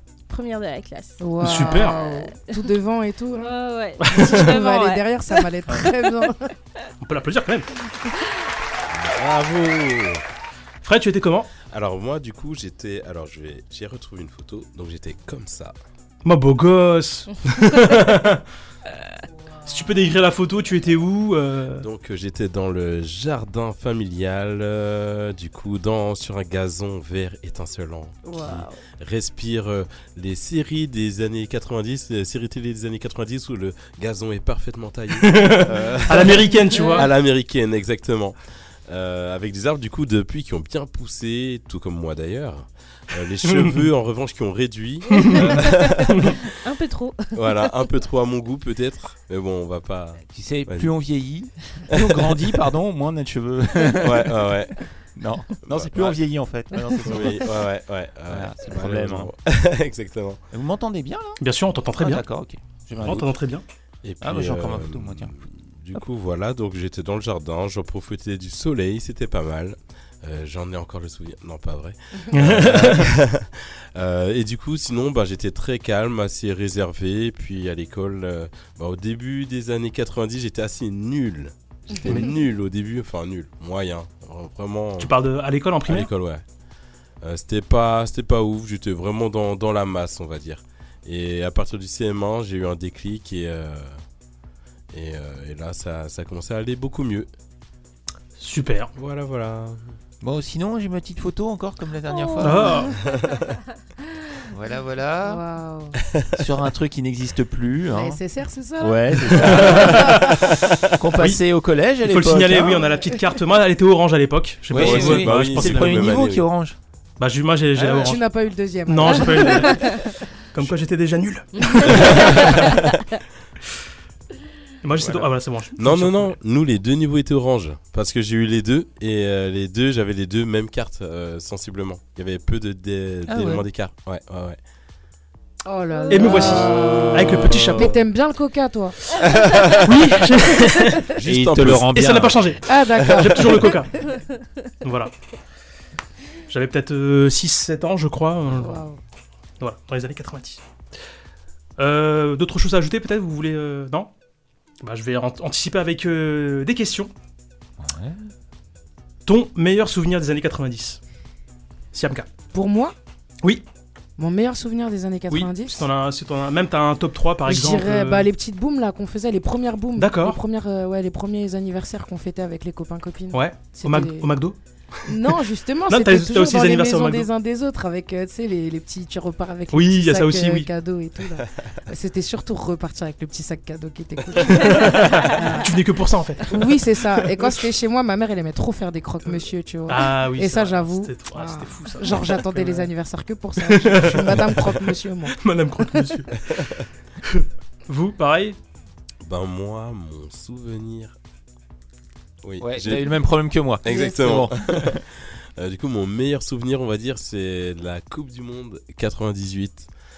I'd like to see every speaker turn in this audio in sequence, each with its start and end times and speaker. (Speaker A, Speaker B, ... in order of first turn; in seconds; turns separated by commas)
Speaker A: 0.3-2.6, Speaker B: 1.2-3.5, Speaker C: 1.4-2.0, Speaker A: 3.4-5.8, Speaker C: 4.0-4.5, Speaker B: 4.1-6.5, Speaker C: 7.0-7.7, Speaker D: 8.9-10.2, Speaker C: 10.8-11.5, Speaker D: 11.7-15.7, Speaker C: 16.2-18.4, Speaker C: 19.6-21.9, Speaker D: 21.8-38.4, Speaker B: 28.3-28.5, Speaker A: 28.3-28.6, Speaker C: 35.2-37.1, Speaker A: 36.7-37.1, Speaker D: 38.9-46.3, Speaker C: 43.5-43.8, Speaker C: 45.2-45.5, Speaker A: 45.2-45.8, Speaker A: 46.5-47.6, Speaker D: 47.3-50.9, Speaker E: 50.3-54.5, Speaker D: 51.9-52.3, Speaker D: 54.0-54.8, Speaker E: 55.1-57.5, Speaker D: 55.7-56.2, Speaker D: 57.0-60.4, Speaker E: 58.3-59.3, Speaker E: 60.5-61.4, Speaker C: 61.4-62.2, Speaker E: 62.0-63.3, Speaker C: 63.0-63.6, Speaker D: 64.0-85.1, Speaker E: 64.2-65.4, Speaker C: 72.3-73.1, Speaker C: 85.0-86.1, Speaker D: 85.8-86.4, Speaker D: 87.2-94.0, Speaker D: 94.9-97.3, Speaker C: 98.4-98.9, Speaker D: 99.0-100.0, Speaker E: 100.2-102.9, Speaker A: 102.1-102.8, Speaker C: 102.4-102.9, Speaker D: 103.1-103.4, Speaker E: 104.4-105.4, Speaker B: 105.2-106.0, Speaker E: 106.4-108.2, Speaker B: 107.9-110.2, Speaker E: 108.8-112.9, Speaker C: 109.5-110.1, Speaker C: 112.0-116.2, Speaker E: 114.7-116.8, Speaker D: 114.7-116.5, Speaker C: 117.2-118.3, Speaker B: 117.8-119.8, Speaker C: 118.9-120.0, Speaker C: 120.5-122.5, Speaker D: 121.8-122.7, Speaker C: 124.8-126.3, Speaker E: 125.0-125.3, Speaker D: 125.8-134.6, Speaker E: 133.2-133.6, Speaker B: 135.6-139.0, Speaker C: 136.1-138.0, Speaker D: 137.5-137.9, Speaker D: 139.4-139.8, Speaker C: 139.8-141.1, Speaker D: 141.2-141.9, Speaker E: 141.2-142.6, Speaker C: 141.9-143.9, Speaker B: 142.6-143.6, Speaker C: 144.8-145.1, Speaker C: 146.5-148.8, Speaker B: 148.5-149.0, Speaker C: 149.6-150.6, Speaker C: 151.8-154.1, Speaker C: 154.8-157.1, Speaker E: 157.8-158.3, Speaker C: 159.2-161.0, Speaker C: 161.9-162.3, Speaker B: 162.5-162.9, Speaker B: 164.2-165.9, Speaker C: 165.3-168.3, Speaker B: 167.5-174.3, Speaker C: 169.9-170.4, Speaker C: 173.3-174.6, Speaker B: 175.0-185.7, Speaker C: 175.9-177.3, Speaker C: 179.7-180.7, Speaker C: 184.6-186.6, Speaker B: 186.4-195.4, Speaker C: 189.9-192.9, Speaker C: 193.6-196.5, Speaker D: 196.5-196.8, Speaker C: 197.2-198.6, Speaker D: 199.2-201.1, Speaker D: 202.4-203.2, Speaker E: 202.6-205.0, Speaker D: 203.8-209.9